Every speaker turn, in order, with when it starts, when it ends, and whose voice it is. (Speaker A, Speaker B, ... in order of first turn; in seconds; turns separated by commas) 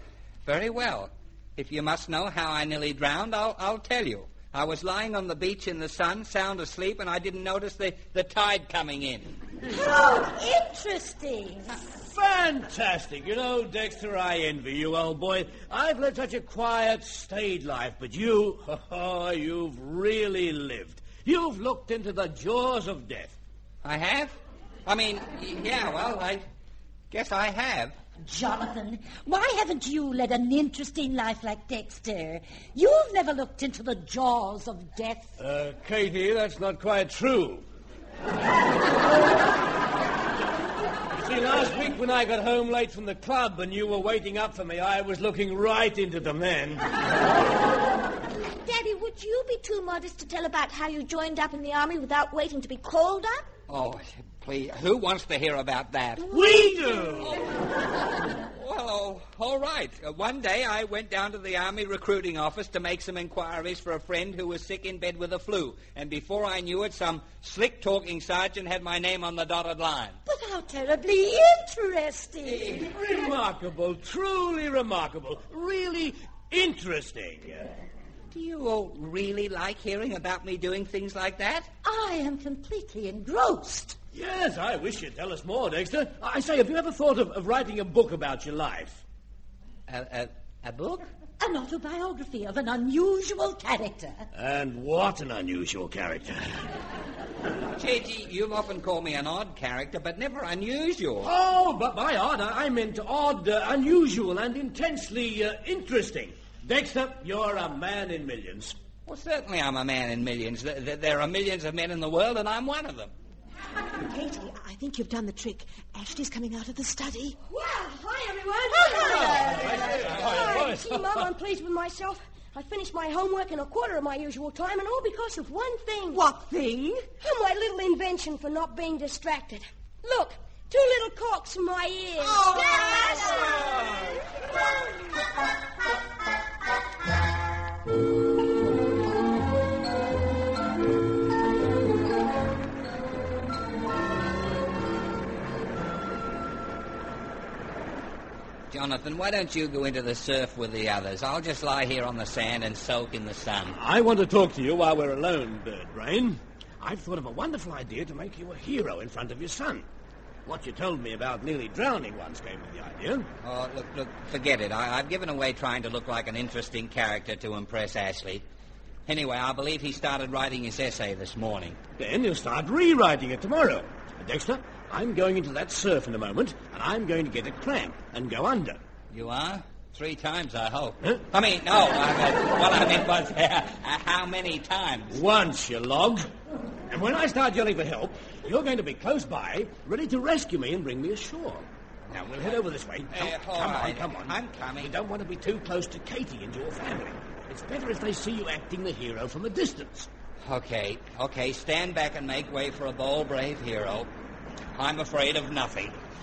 Speaker A: 0.4-9.4, Speaker B: 9.7-12.0, Speaker C: 12.1-23.4, Speaker A: 23.8-26.5, Speaker A: 27.1-28.0, Speaker B: 28.2-35.4, Speaker C: 35.4-37.6, Speaker C: 41.2-46.8, Speaker D: 48.4-53.5, Speaker A: 53.7-56.2, Speaker C: 56.3-57.4, Speaker A: 58.5-70.2, Speaker B: 70.2-72.8, Speaker C: 72.8-77.7, Speaker A: 78.3-81.7, Speaker B: 81.8-84.0, Speaker C: 84.1-89.0, Speaker A: 89.9-91.0, Speaker B: 91.4-94.3, Speaker C: 94.3-96.6, Speaker A: 97.7-101.3, Speaker C: 101.2-108.8, Speaker A: 109.0-113.1, Speaker E: 114.0-117.4, Speaker F: 117.5-126.2, Speaker E: 118.8-120.7, Speaker C: 118.8-121.2, Speaker A: 120.2-120.4, Speaker E: 126.1-127.1, Speaker F: 127.2-133.6, Speaker E: 132.2-134.1, Speaker A: 148.7-153.8, Speaker C: 153.7-159.9, Speaker C: 160.4-163.3, Speaker A: 163.4-168.4, Speaker A: 169.1-171.8, Speaker C: 172.0-178.8, Speaker A: 179.1-185.2, Speaker C: 185.1-186.3, Speaker C: 186.9-191.7, Speaker A: 192.1-194.9, Speaker C: 192.2-200.1, Speaker A: 200.4-204.1, Speaker A: 204.8-205.9